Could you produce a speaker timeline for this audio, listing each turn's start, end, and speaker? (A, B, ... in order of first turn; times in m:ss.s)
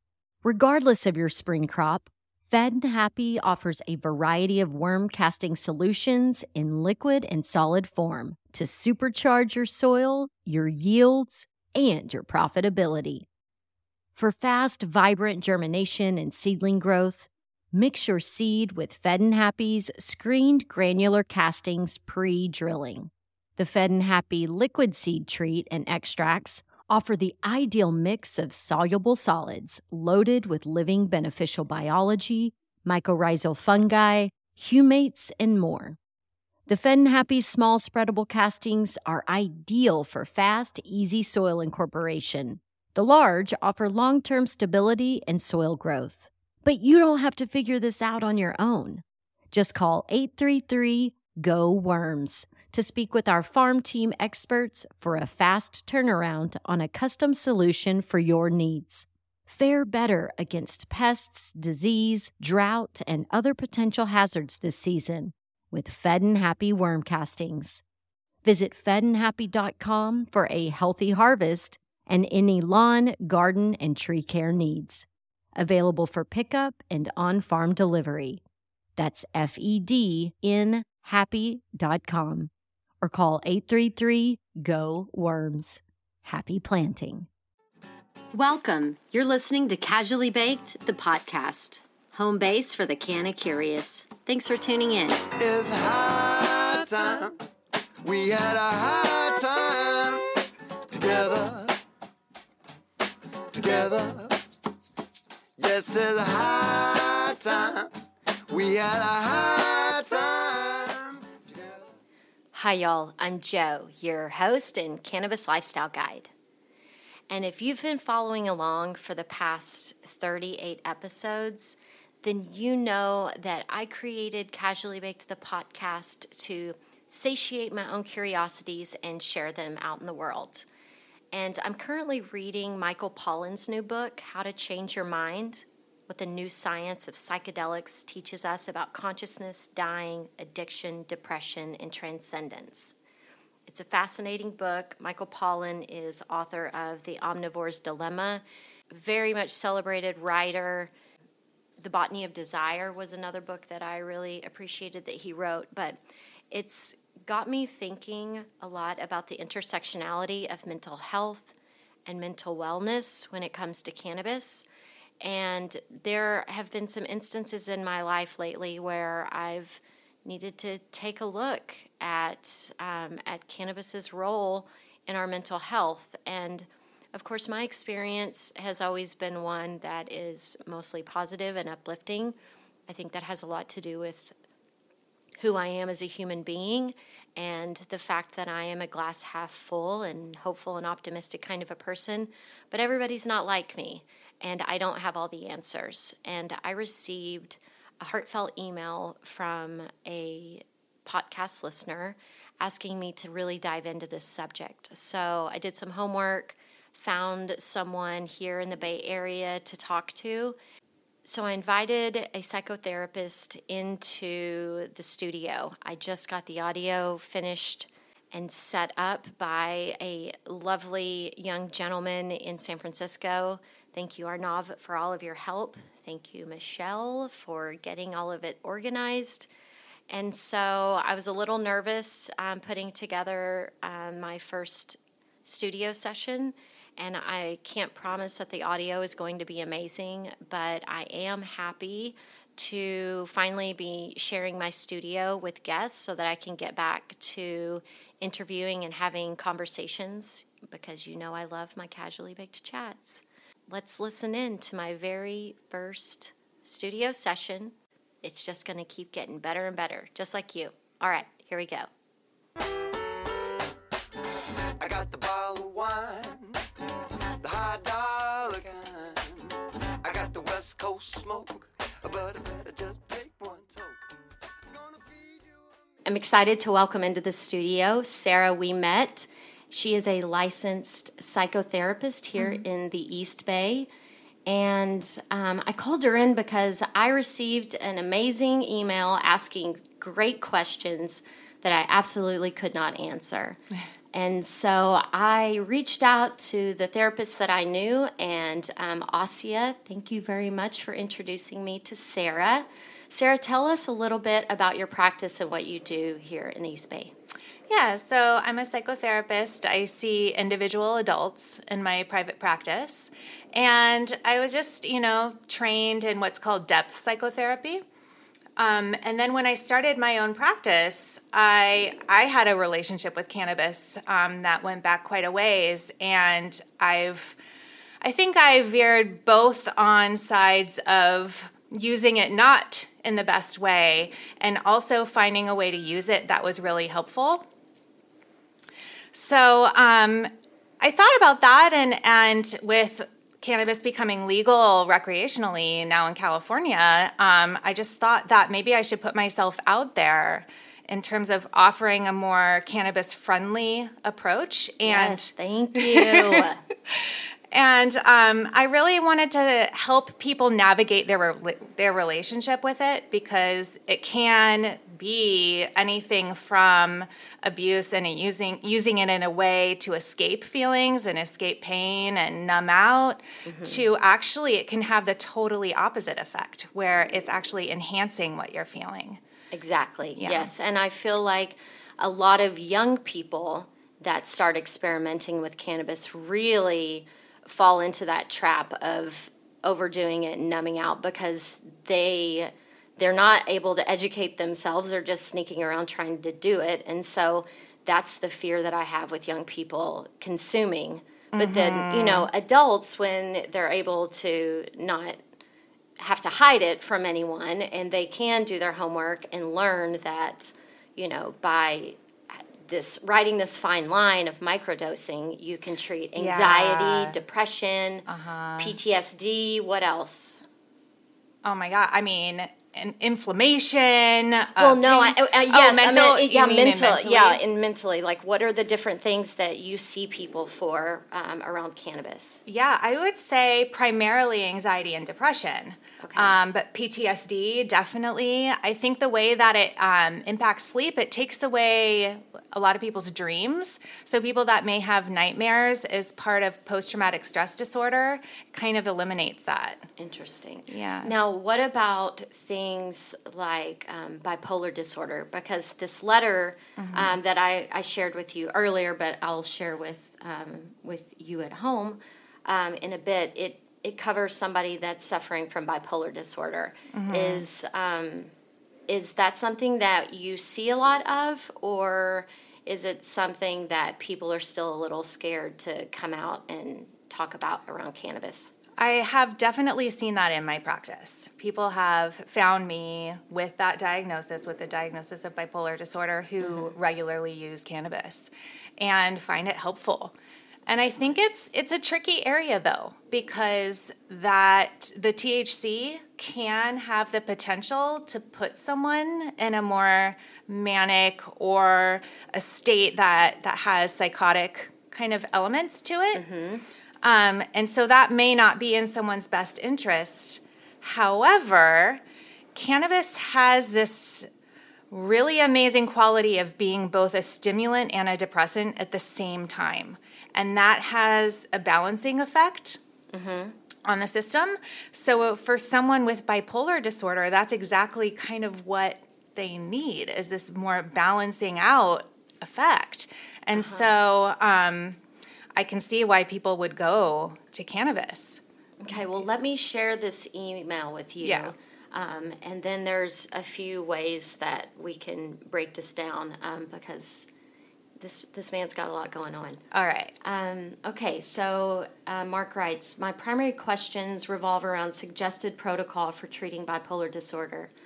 0:00.4-0:13.3 A
0:14.2-0:36.0 A
0:36.7-1:07.8 A
1:08.4-1:18.4 A
1:19.0-1:22.5 A
1:23.0-1:27.3 A
1:28.3-1:35.2 A
1:35.4-1:37.4 B
1:38.0-1:40.3 B
1:40.9-1:41.8 B
1:43.5-1:44.4 B
1:45.6-1:47.9 B
1:48.5-1:51.9 B
1:52.5-1:56.3 A
1:57.3-2:10.7 A
2:11.3-2:23.0 A
2:23.7-2:30.9 A
2:31.8-2:36.0 A
2:36.5-2:41.6 A
2:42.1-2:44.7 A
2:45.2-3:02.4 A
3:02.9-3:04.3 A
3:05.4-3:30.6 A
3:31.2-3:49.5 A
3:50.1-4:21.9 A
4:24.8-4:26.6 B
4:27.4-4:34.0 B
4:34.7-4:35.6 B
4:36.1-4:43.9 A
4:44.5-4:53.6 A
4:54.1-5:07.1 A
5:07.7-5:17.8 C
5:18.6-5:27.4 C
5:28.0-5:37.4 C
5:39.1-5:40.3 C
5:40.8-6:19.2 C
5:54.9-5:56.6 A
6:13.4-6:13.8 A
6:19.5-6:45.2 A
6:20.2-6:20.5 C
6:41.3-6:42.3 C
6:46.0-6:58.1 A
6:56.2-6:57.2 C
6:58.1-6:58.8 C
6:58.6-7:00.4 A
7:01.4-7:07.4 C
7:04.6-7:12.4 A
7:12.5-7:29.8 C
7:16.0-7:16.4 A
7:30.0-7:48.3 A
7:30.7-7:31.1 C
7:36.8-7:37.2 C
7:46.9-7:47.4 C
7:48.9-7:58.5 A
7:58.8-8:10.2 C
8:06.4-8:06.7 A
8:10.7-8:26.2 C
8:10.9-8:11.2 A
8:26.1-8:26.6 A
8:27.0-8:32.0 C
8:32.6-8:34.3 C
8:34.9-8:42.8 C
8:43.1-8:43.6 A
8:43.9-8:55.0 C
8:53.5-8:53.9 A
8:55.6-8:58.4 C
8:58.8-9:07.3 A
9:01.2-9:01.5 C
9:08.0-9:09.6 A
9:09.7-9:10.1 C
9:10.2-9:17.7 A